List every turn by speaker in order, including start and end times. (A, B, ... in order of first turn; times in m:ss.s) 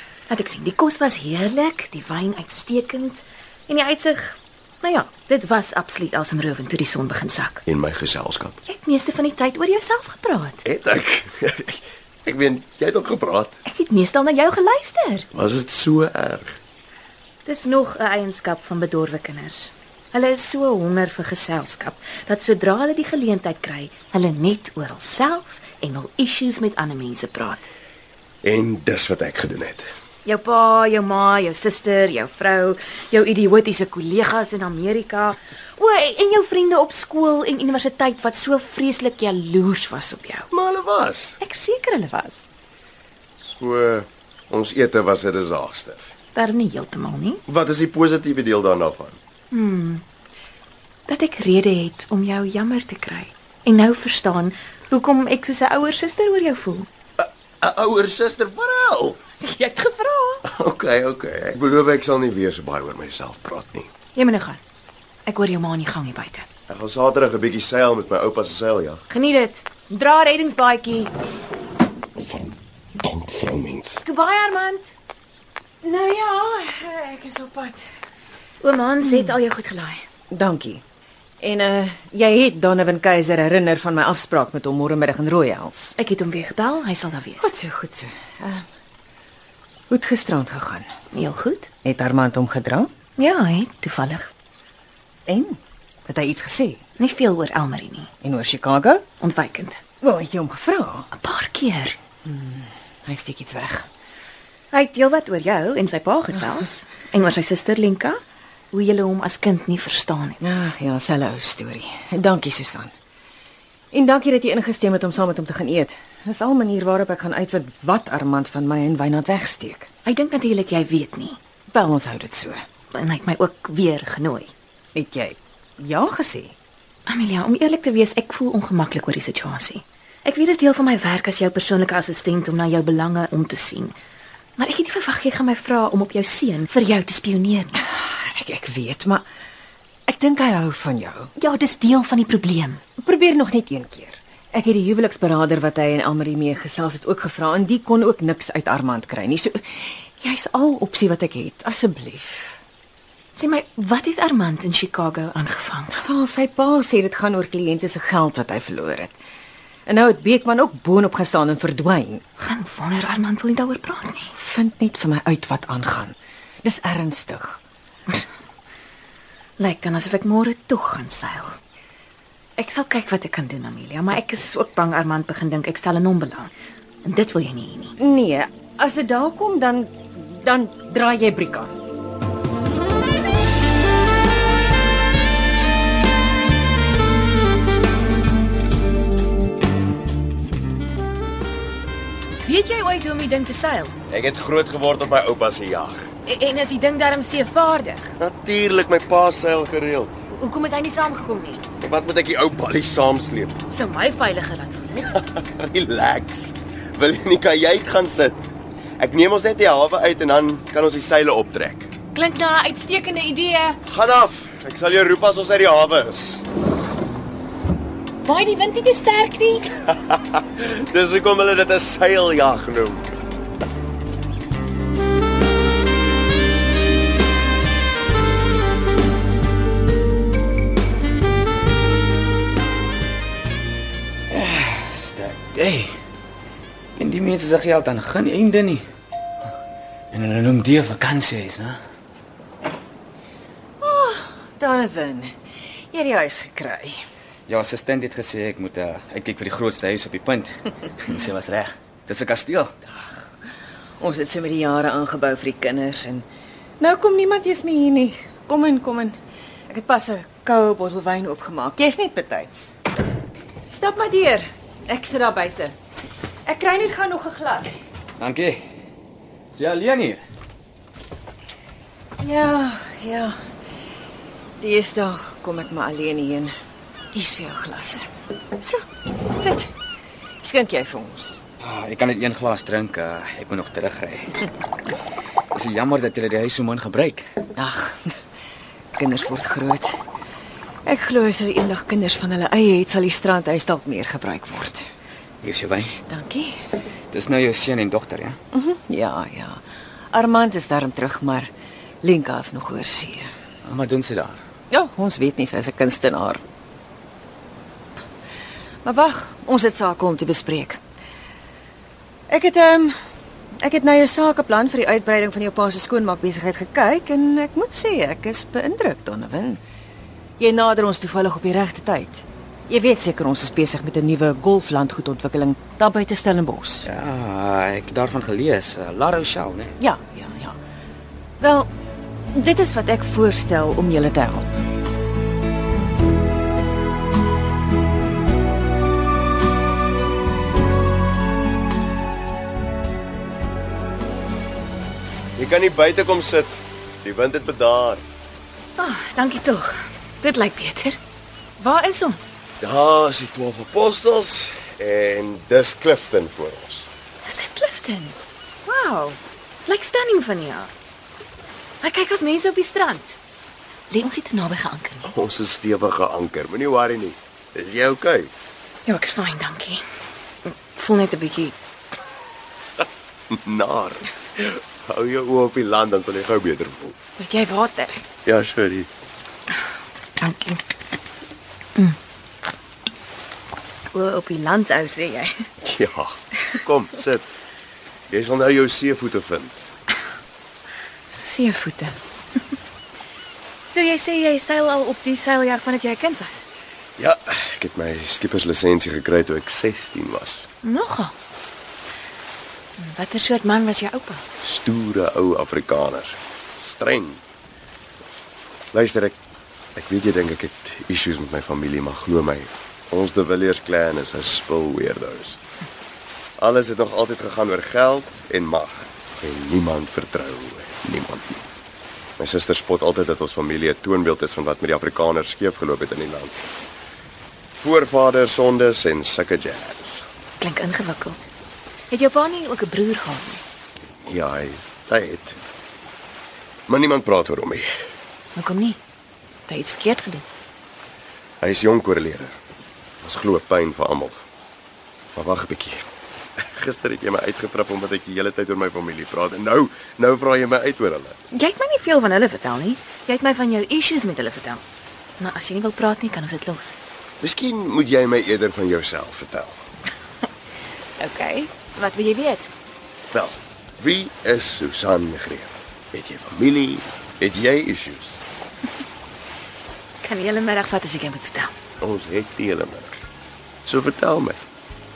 0:00.3-0:07.6 A
0:07.7-0:08.6 B
0:08.7-0:10.6 A
0:10.6-0:13.6 B
0:13.7-0:15.3 A
0:15.3-0:16.6 B
0:17.5-0:27.7 A
0:28.4-0:29.8 B
0:30.2-0:40.5 A
0:40.5-0:41.4 B
0:41.4-0:42.5 A
0:43.4-0:46.0 B
0:46.3-0:47.4 A
0:47.5-0:49.2 B
0:49.5-0:50.0 A
0:51.1-0:56.9 A
0:57.2-0:59.2 B
0:59.4-1:00.4 A
1:00.4-1:03.9 B
1:04.2-1:04.6 A
1:05.3-1:06.5 A
1:06.7-1:09.0 B
1:09.1-1:11.1 A
1:12.2-1:14.0 B
1:14.0-1:14.9 A
1:15.8-1:17.8 C
1:18.6-1:20.0 A
1:20.3-1:20.8 C
1:21.4-1:26.0 C
1:26.0-1:27.5 A
1:27.4-1:28.7 C
1:29.9-1:30.9 C
1:31.1-1:31.7 A
1:31.8-1:32.9 C
1:33.2-1:34.3 A
1:35.3-1:36.8 C
1:37.0-1:38.1 A
1:38.2-1:39.1 C
1:39.2-1:39.8 A
1:40.0-1:41.1 C
1:41.1-1:42.0 A
1:42.2-1:43.9 C
1:44.7-1:48.2 A
1:48.7-1:50.4 A
1:50.4-1:52.9 C
1:53.9-1:59.9 C
2:00.0-2:01.4 A
2:01.7-2:02.6 C
2:02.9-2:04.5 A
2:05.0-2:06.5 C
2:07.1-2:14.0 A
2:14.6-2:17.7 A
2:17.8-2:19.2 C
2:20.1-2:21.3 C
2:21.4-2:22.8 A
2:23.0-2:32.6 C
2:33.4-2:35.9 A
2:35.9-2:39.2 C
2:39.8-2:42.2 C
2:42.4-2:44.3 A
2:44.4-2:47.6 C
2:49.6-2:51.6 A
2:52.6-2:56.5 A
2:57.0-2:57.9 A
2:58.0-3:01.7 C
3:12.4-3:13.9 A
3:14.1-3:16.0 B
3:16.2-3:18.1 A
3:18.2-3:20.1 B
3:20.3-3:21.6 A
3:21.8-3:23.6 B
3:23.7-3:25.2 A
3:25.3-3:28.4 B
3:29.0-3:31.9 B
3:32.2-3:33.8 A
3:33.9-3:36.4 B
3:38.2-3:39.9 A
3:40.4-3:43.0 B
3:54.3-3:56.0 D
3:57.0-3:58.8 D
4:00.1-4:01.8 D
4:03.8-4:05.3 C
4:05.9-4:07.0 C
4:07.5-4:12.7 D
4:12.9-4:13.2 C
4:14.0-4:16.3 C
4:16.8-4:19.2 C
4:19.7-4:22.8 C
4:23.7-4:25.8 C
4:26.5-4:27.8 C
4:28.2-4:28.6 D
4:29.5-4:30.2 D
4:32.2-4:33.4 C
4:34.6-4:36.5 C
4:37.1-4:38.1 C
4:38.6-4:38.8 C
4:39.4-4:39.7 C
4:40.4-4:41.4 C
4:41.6-4:44.4 D
4:45.5-4:47.4 D
4:47.6-4:48.1 C
4:49.0-4:50.0 C
4:50.9-4:54.8 C
4:55.4-4:55.9 D
4:56.1-4:56.5 C
4:57.1-4:58.4 D
4:58.5-4:59.6 C
5:00.1-5:01.5 C
5:02.0-5:03.3 C
5:03.6-5:04.4 D
5:04.7-5:06.4 C
5:08.8-5:10.8 C
5:12.3-5:13.0 C
5:13.6-5:19.6 C
5:20.4-5:26.9 C
5:26.8-5:29.8 D
5:29.8-5:30.6 C
5:31.4-5:31.7 C
5:32.3-5:34.6 C
5:45.4-5:48.0 B
5:48.8-5:51.0 A
5:51.6-5:52.3 A
5:52.6-5:56.9 B
5:57.2-6:00.7 A
6:01.8-6:03.2 A
6:03.9-6:05.1 A
6:05.1-6:08.3 B
6:08.9-6:09.8 A
6:10.5-6:11.6 A
6:13.3-6:17.0 B
6:17.2-6:18.0 A
6:18.2-6:18.9 B
6:20.2-6:20.6 A
6:23.9-6:25.5 A
6:25.6-6:27.3 B
6:28.1-6:29.7 B
6:31.1-6:32.0 A
6:33.7-6:36.4 A
6:37.0-6:40.5 B
6:40.6-6:41.1 A
6:42.8-6:44.2 A
6:44.4-6:47.2 B
6:48.7-6:49.2 B
6:49.8-6:55.4 B
6:56.4-7:01.4 B
7:02.2-7:06.5 B
7:07.6-7:10.1 B
7:10.4-7:11.3 A
7:11.9-7:13.4 A
7:14.1-7:15.4 B
7:16.7-7:17.7 B
7:18.4-7:18.8 A
7:19.5-7:20.2 A
7:21.4-7:22.4 B
7:23.0-7:24.2 B
7:25.1-7:25.9 B
7:26.4-7:31.2 B
7:31.3-7:34.6 A
7:35.2-7:36.8 A
7:37.2-7:39.6 B
7:41.0-7:42.5 A
7:43.1-7:48.2 B
7:50.0-7:51.6 A
7:51.8-7:53.0 B
7:53.6-7:54.4 B